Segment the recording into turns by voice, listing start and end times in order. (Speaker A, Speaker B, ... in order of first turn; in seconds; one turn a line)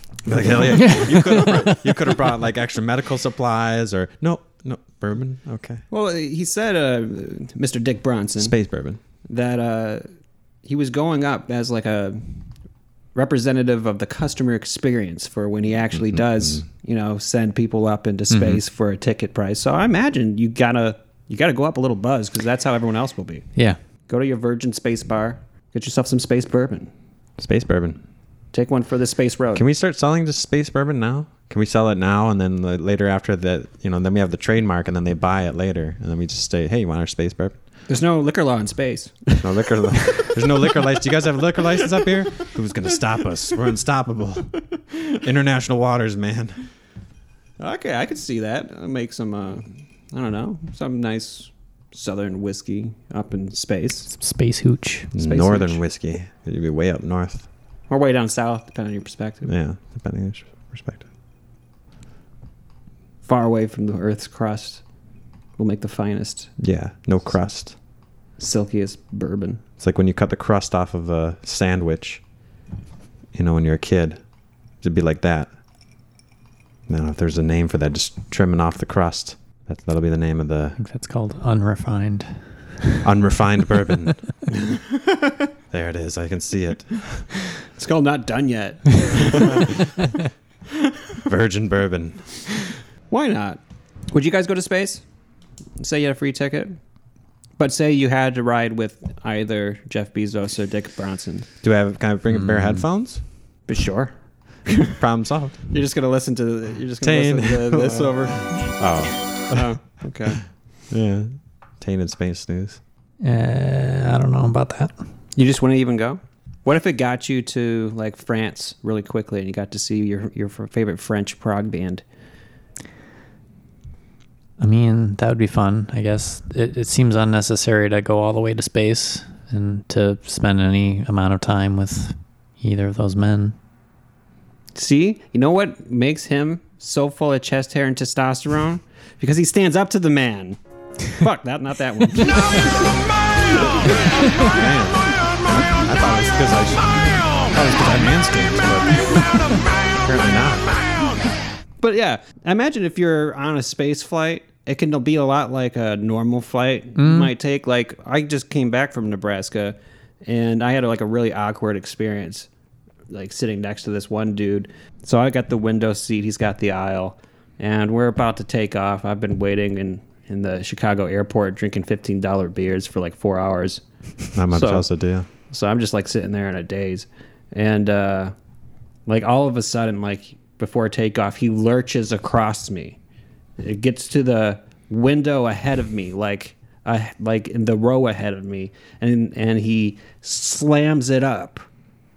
Speaker A: 0.2-5.8
Speaker B: 0.7-1.9
Speaker C: 5.9-8.6
Speaker A: 8.4-9.0
Speaker C: 9.2-10.1
Speaker C: 10.6-12.2
Speaker C: 13.1-23.5
Speaker B: 18.3-18.6
Speaker C: 24.1-26.9
Speaker A: 27.4-28.0
Speaker C: 28.5-29.6
Speaker A: 29.5-37.5
Speaker C: 37.9-40.6
Speaker A: 39.4-44.6
Speaker A: 45.1-46.7
Speaker C: 47.6-54.1
Speaker B: 54.1-55.1
Speaker A: 55.1-57.5
Speaker C: 55.1-55.8
Speaker C: 57.9-59.5
Speaker A: 59.5-61.0
Speaker C: 63.2-64.8
Speaker C: 65.6-66.5
Speaker A: 66.6-67.8
Speaker C: 68.4-69.6
Speaker A: 69.8-72.2
Speaker A: 73.3-74.2
Speaker A: 74.8-75.5
Speaker A: 76.9-80.8
Speaker B: 80.8-83.0
Speaker A: 83.0-84.2
Speaker C: 84.5-85.5
Speaker A: 85.7-87.3
Speaker C: 87.6-89.9
Speaker A: 91.2-92.4
Speaker C: 93.1-93.6
Speaker C: 94.1-95.0
Speaker C: 95.8-96.8
Speaker C: 97.6-101.5
Speaker A: 101.6-103.2
Speaker B: 102.4-102.8
Speaker C: 103.7-104.1
Speaker C: 104.7-104.9
Speaker A: 105.0-105.6
Speaker C: 105.7-108.8
Speaker A: 107.0-109.7
Speaker C: 109.5-110.4
Speaker A: 110.9-112.8
Speaker B: 113.2-114.9
Speaker C: 115.3-122.0
Speaker B: 124.6-133.5
Speaker C: 134.7-140.6
Speaker C: 141.1-142.8
Speaker A: 144.4-150.8
Speaker C: 151.8-162.5
Speaker B: 157.0-157.3
Speaker C: 163.1-173.8
Speaker A: 174.3-175.2
Speaker C: 174.5-174.9
Speaker C: 175.4-178.3
Speaker C: 179.1-183.0
Speaker C: 183.6-191.7